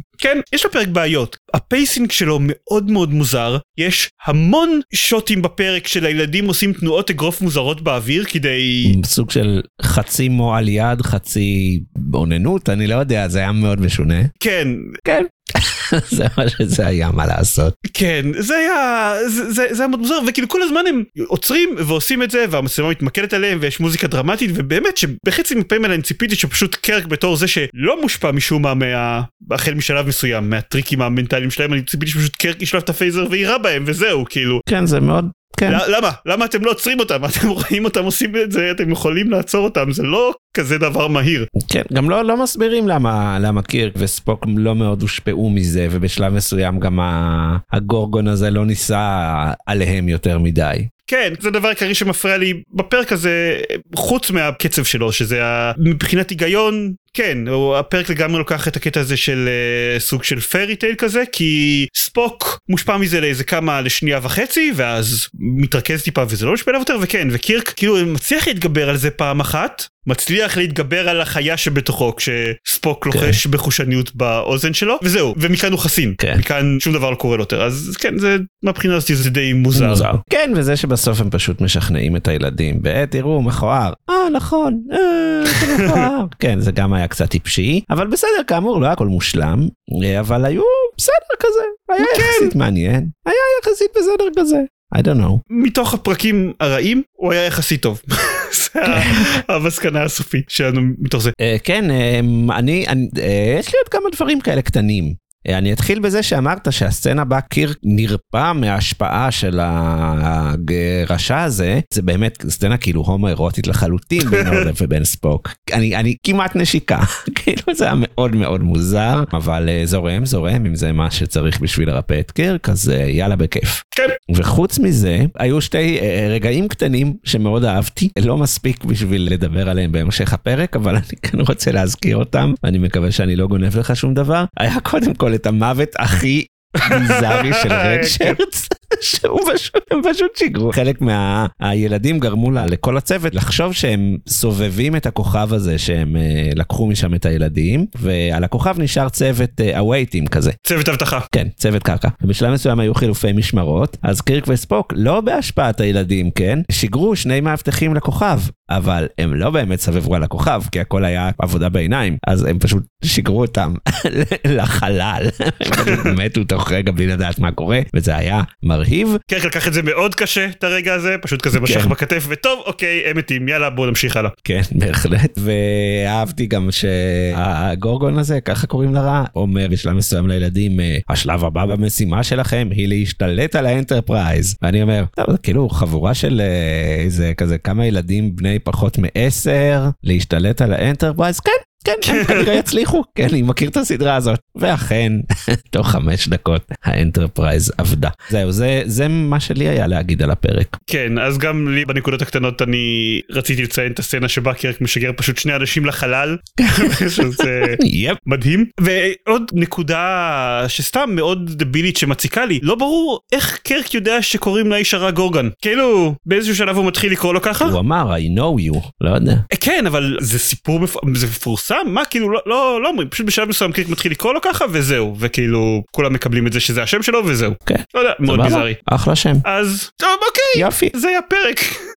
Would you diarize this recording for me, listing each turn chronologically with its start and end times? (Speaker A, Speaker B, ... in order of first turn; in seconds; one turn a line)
Speaker A: 0.2-9.0
Speaker B: 8.8-14.3
Speaker A: 14.4-15.0
Speaker B: 15.1-17.7
Speaker A: 17.9-34.6
Speaker B: 34.7-35.8
Speaker A: 35.7-41.5
Speaker B: 41.6-50.9
Speaker A: 51.1-80.1
Speaker B: 73.1-73.4
Speaker B: 79.8-95.4
Speaker A: 85.5-86.1
Speaker A: 92.0-92.5
Speaker A: 95.5-101.3
Speaker B: 98.9-99.3
Speaker B: 101.4-123.8
Speaker A: 114.2-114.7
Speaker B: 124.3-150.6
Speaker A: 136.8-138.4
Speaker A: 150.6-151.3
Speaker B: 151.3-169.2
Speaker A: 165.7-166.1
Speaker A: 169.3-174.3
Speaker B: 171.5-172.0
Speaker B: 174.4-200.8
Speaker A: 192.0-192.5
Speaker A: 200.9-217.8
Speaker B: 206.6-208.2
Speaker B: 217.6-219.4
Speaker A: 219.5-228.8
Speaker B: 227.7-229.4
Speaker A: 229.4-231.8
Speaker B: 230.6-230.9